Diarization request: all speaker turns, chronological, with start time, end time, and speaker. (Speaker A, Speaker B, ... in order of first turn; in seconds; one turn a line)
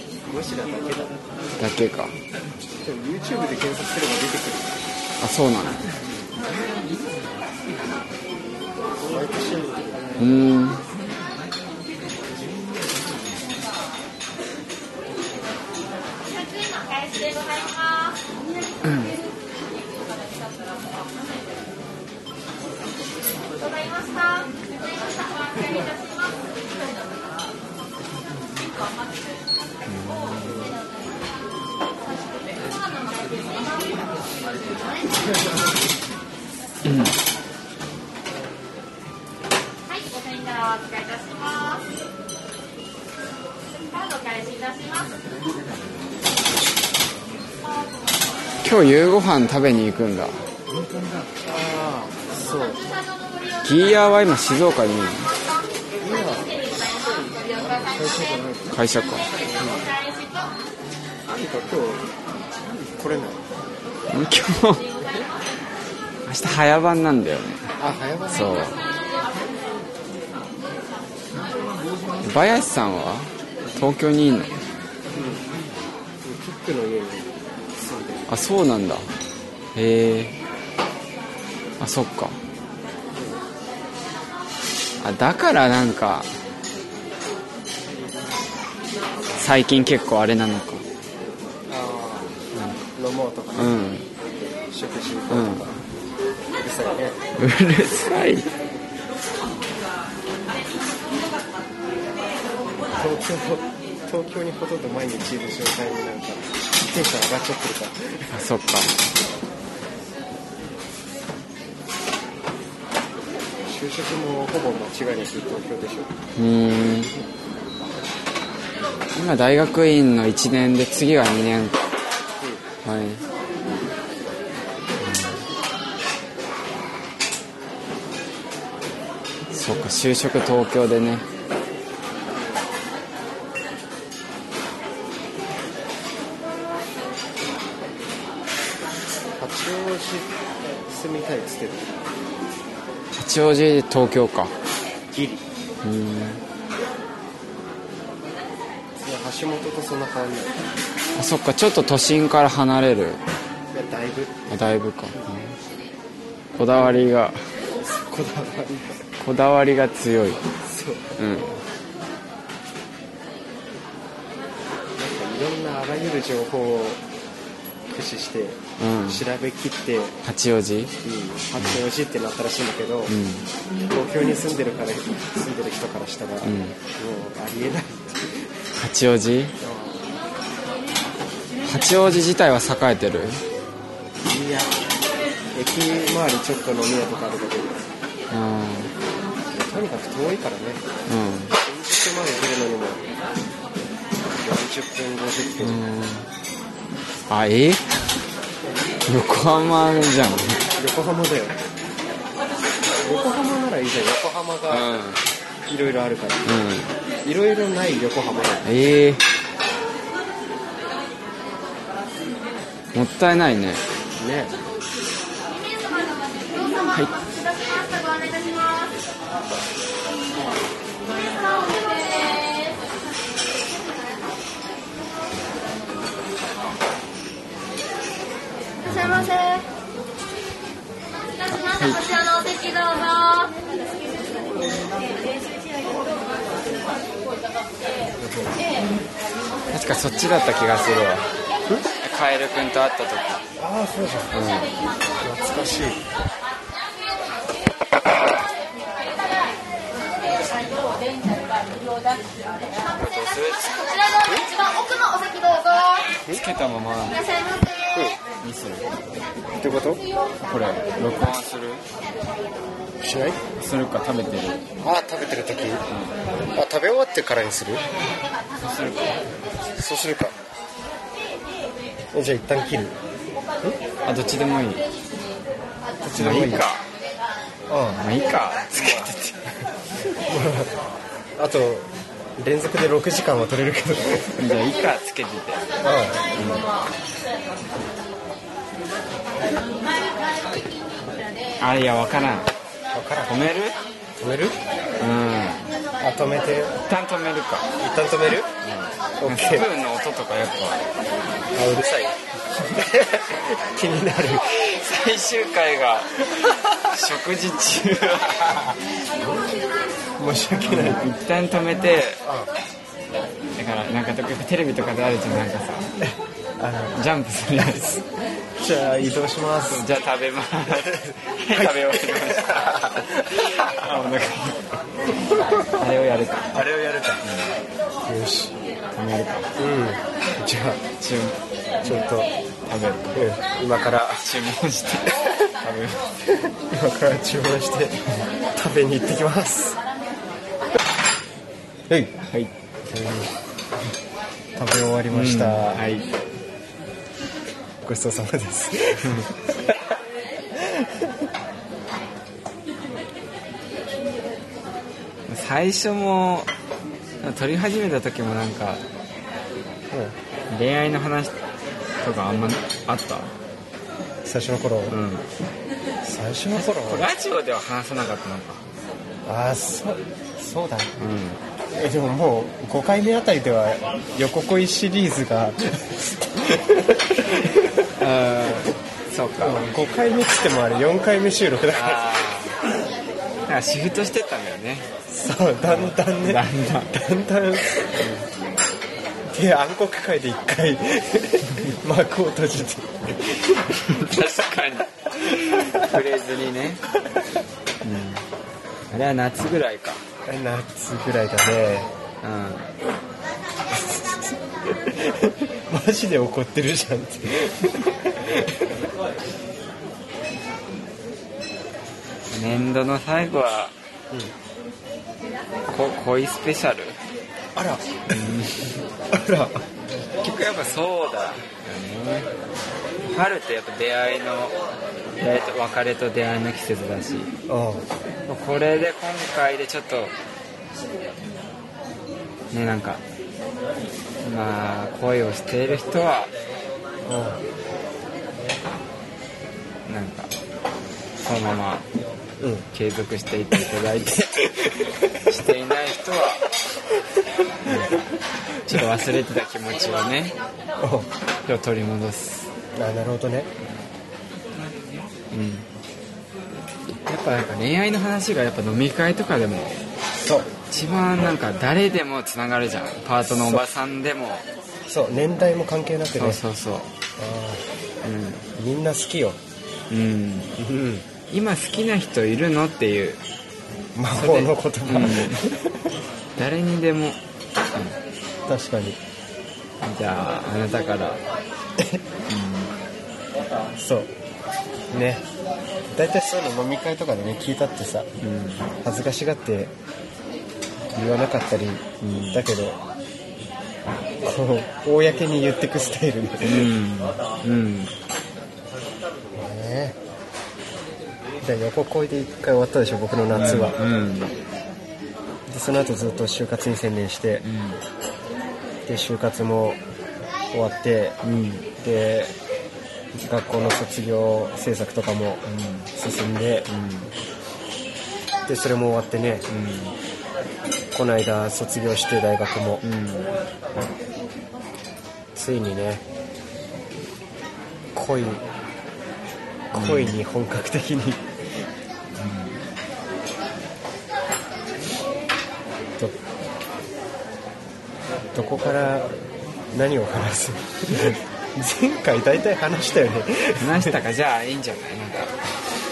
Speaker A: 0.2-1.2
Speaker B: 1.6-2.1
Speaker A: 2.8-4.8
Speaker B: 5.2-5.8
Speaker A: 9.0-10.4
Speaker B: 10.2-10.8
Speaker C: 16.2-18.2
Speaker B: 18.8-19.1
Speaker C: 23.6-26.7
Speaker B: 29.9-30.7
Speaker C: 32.5-35.0
Speaker B: 36.8-37.2
Speaker C: 39.9-41.9
Speaker C: 43.9-45.1
Speaker B: 48.6-50.4
Speaker A: 51.3-52.9
Speaker C: 53.2-53.6
Speaker B: 53.6-55.3
Speaker A: 56.0-58.8
Speaker C: 56.7-57.8
Speaker B: 58.7-59.3
Speaker C: 59.3-60.5
Speaker A: 59.5-59.9
Speaker A: 61.2-62.1
Speaker A: 62.8-63.5
Speaker B: 64.1-64.9
Speaker B: 66.2-67.7
Speaker A: 67.8-68.7
Speaker B: 68.3-68.8
Speaker B: 72.2-74.5
Speaker A: 75.1-75.5
Speaker A: 76.2-78.3
Speaker B: 78.3-79.1
Speaker B: 79.7-80.3
Speaker B: 81.8-82.4
Speaker A: 83.1-83.4
Speaker B: 85.0-86.3
Speaker B: 89.4-90.8
Speaker A: 91.7-92.4
Speaker B: 92.5-92.8
Speaker A: 92.9-95.8
Speaker B: 93.5-94.1
Speaker B: 95.3-95.7
Speaker A: 96.6-97.2
Speaker B: 97.4-98.5
Speaker A: 102.9-108.4
Speaker B: 108.3-108.9
Speaker A: 113.6-116.1
Speaker B: 116.3-117.1
Speaker B: 119.1-121.8
Speaker A: 122.4-122.6
Speaker B: 122.8-123.2
Speaker B: 125.0-125.4
Speaker B: 129.5-131.2
Speaker A: 132.3-132.6
Speaker A: 139.4-142.0
Speaker B: 143.2-144.5
Speaker A: 145.1-145.4
Speaker B: 145.8-146.4
Speaker A: 149.0-150.7
Speaker B: 151.1-153.2
Speaker A: 153.7-155.4
Speaker B: 154.5-155.5
Speaker B: 156.5-157.5
Speaker A: 157.8-159.0
Speaker B: 159.2-160.4
Speaker A: 160.6-161.1
Speaker B: 161.2-161.6
Speaker A: 164.9-167.0
Speaker A: 167.9-170.2
Speaker B: 168.8-169.2
Speaker B: 170.2-170.9
Speaker A: 171.0-173.1
Speaker B: 173.1-173.4
Speaker A: 173.9-178.5
Speaker B: 176.4-176.8
Speaker B: 178.8-179.5
Speaker A: 179.6-180.1
Speaker B: 181.7-183.4
Speaker A: 184.2-184.9
Speaker A: 185.5-187.9
Speaker B: 188.3-188.9
Speaker A: 189.5-190.8
Speaker B: 191.1-191.5
Speaker A: 191.5-193.1
Speaker A: 194.4-195.8
Speaker B: 195.6-196.3
Speaker B: 197.3-198.1
Speaker B: 199.0-200.6
Speaker A: 200.8-201.6
Speaker A: 203.0-204.9
Speaker B: 204.7-205.2
Speaker A: 205.7-206.5
Speaker B: 206.4-206.9
Speaker A: 207.2-208.7
Speaker B: 208.6-209.2
Speaker B: 212.9-213.8
Speaker A: 214.2-214.5
Speaker C: 215.5-218.9
Speaker C: 221.0-222.8
Speaker B: 228.8-229.3
Speaker C: 228.8-229.6
Speaker C: 231.4-233.6
Speaker B: 231.5-232.0
Speaker A: 238.2-238.6
Speaker B: 239.7-241.3
Speaker B: 242.0-243.4
Speaker A: 243.6-244.5
Speaker B: 244.3-244.7
Speaker A: 245.2-246.0
Speaker B: 252.9-253.8
Speaker C: 253.5-256.1
Speaker B: 256.3-257.2
Speaker C: 257.1-257.9
Speaker A: 257.9-258.2
Speaker B: 258.4-258.9
Speaker A: 259.6-260.0
Speaker B: 260.4-261.8
Speaker A: 263.0-263.4
Speaker B: 263.6-264.6
Speaker A: 264.8-265.8
Speaker B: 265.9-266.2
Speaker A: 266.5-267.9
Speaker B: 268.6-269.2
Speaker A: 269.8-270.3
Speaker A: 272.1-272.9
Speaker B: 274.0-274.8
Speaker A: 276.0-276.6
Speaker B: 276.2-276.8
Speaker A: 277.7-278.0
Speaker B: 278.0-279.6
Speaker A: 278.7-279.1
Speaker A: 280.3-280.7
Speaker A: 281.4-284.6
Speaker B: 284.4-285.6
Speaker A: 285.8-286.4
Speaker B: 286.3-286.7
Speaker B: 291.6-292.5
Speaker A: 292.9-293.3
Speaker B: 293.2-293.8
Speaker A: 294.2-294.6
Speaker B: 295.0-295.7
Speaker A: 296.0-296.8
Speaker B: 296.9-297.7
Speaker A: 297.8-298.5
Speaker B: 298.6-300.8
Speaker A: 299.2-299.7
Speaker A: 301.5-304.5
Speaker B: 304.6-308.8
Speaker A: 310.2-311.1
Speaker B: 310.7-312.2
Speaker A: 312.2-312.5
Speaker B: 313.6-315.9
Speaker A: 316.0-317.0
Speaker B: 316.9-318.0
Speaker A: 317.6-318.0
Speaker A: 318.6-319.8
Speaker B: 319.7-324.8
Speaker A: 320.7-323.7
Speaker A: 325.3-325.6
Speaker B: 325.3-326.5
Speaker A: 326.5-327.2
Speaker B: 327.2-327.5
Speaker A: 328.0-328.5
Speaker B: 328.9-329.5
Speaker A: 329.6-330.8
Speaker B: 331.0-331.4
Speaker A: 331.8-332.3
Speaker B: 332.7-333.1
Speaker A: 333.1-334.2
Speaker B: 334.1-336.0
Speaker A: 336.5-338.0
Speaker A: 338.5-339.8
Speaker A: 341.9-342.1
Speaker B: 342.2-342.5
Speaker A: 342.9-343.3
Speaker A: 344.6-345.9
Speaker B: 345.1-346.1
Speaker A: 347.8-349.9
Speaker A: 350.5-351.1
Speaker B: 355.3-356.5
Speaker B: 357.2-358.8
Speaker A: 359.9-360.1
Speaker B: 360.5-361.4
Speaker B: 362.0-363.3
Speaker A: 364.2-365.0
Speaker B: 364.9-365.2
Speaker A: 366.0-367.1
Speaker B: 366.5-368.6
Speaker A: 369.2-371.0
Speaker B: 371.0-371.4
Speaker A: 371.7-377.9
Speaker B: 378.0-379.6
Speaker A: 379.4-382.1
Speaker B: 381.7-382.6
Speaker B: 383.4-384.9
Speaker A: 385.1-387.7
Speaker B: 385.7-387.0
Speaker B: 387.8-388.2
Speaker A: 389.3-394.0
Speaker B: 393.8-396.8
Speaker A: 395.5-395.9
Speaker B: 397.8-398.2
Speaker B: 398.9-400.0
Speaker A: 400.2-401.9
Speaker B: 402.2-402.7
Speaker A: 403.7-404.1
Speaker A: 404.7-408.9
Speaker B: 412.3-413.7
Speaker B: 415.7-417.0
Speaker A: 417.5-417.8
Speaker B: 418.1-418.8
Speaker A: 419.1-419.6
Speaker B: 420.2-422.3
Speaker B: 423.0-424.6
Speaker B: 425.2-427.3
Speaker A: 427.5-427.9
Speaker B: 428.3-430.1
Speaker B: 432.5-433.0
Speaker B: 434.2-436.3
Speaker A: 437.0-437.4
Speaker B: 439.9-440.3
Speaker B: 441.2-441.8
Speaker A: 442.4-442.7
Speaker B: 442.7-444.5
Speaker A: 444.1-445.0
Speaker B: 445.2-446.4
Speaker B: 447.6-447.9
Speaker A: 447.6-448.0
Speaker B: 448.6-450.3
Speaker A: 450.8-451.1
Speaker B: 451.4-452.5
Speaker A: 452.7-453.5
Speaker B: 455.3-455.7
Speaker B: 456.9-459.8
Speaker A: 460.2-460.5
Speaker B: 460.7-464.4
Speaker A: 463.2-463.6
Speaker A: 464.9-466.4
Speaker B: 466.2-466.9
Speaker A: 467.2-467.6
Speaker B: 468.0-468.4
Speaker A: 468.6-469.4
Speaker B: 469.9-470.5
Speaker A: 470.6-471.1
Speaker B: 471.3-473.2
Speaker A: 473.9-475.9
Speaker B: 474.1-475.4
Speaker B: 476.4-477.2
Speaker A: 478.4-479.0
Speaker B: 479.8-481.2
Speaker A: 481.8-482.0
Speaker B: 482.3-482.8
Speaker A: 483.8-484.1
Speaker A: 484.9-485.2
Speaker A: 485.9-488.1
Speaker B: 488.2-488.7
Speaker A: 488.8-489.7
Speaker A: 490.9-492.8
Speaker B: 492.0-492.4
Speaker A: 494.2-496.7
Speaker B: 496.4-497.9
Speaker A: 499.3-500.0
Speaker A: 501.4-503.8
Speaker B: 503.3-504.4
Speaker A: 505.5-507.4
Speaker B: 507.4-507.8
Speaker A: 508.9-509.8
Speaker A: 510.5-511.2
Speaker B: 511.2-511.7
Speaker A: 511.8-512.4
Speaker A: 513.1-516.7
Speaker B: 515.4-515.9
Speaker B: 516.7-517.1
Speaker A: 518.5-519.5
Speaker B: 519.5-520.0
Speaker A: 520.9-522.8
Speaker B: 522.8-523.3
Speaker A: 525.3-526.0
Speaker A: 527.9-528.4
Speaker A: 529.7-531.3
Speaker B: 529.7-530.1
Speaker B: 532.2-532.6
Speaker A: 538.3-539.1
Speaker A: 539.7-544.0
Speaker B: 540.9-541.1
Speaker B: 543.6-545.3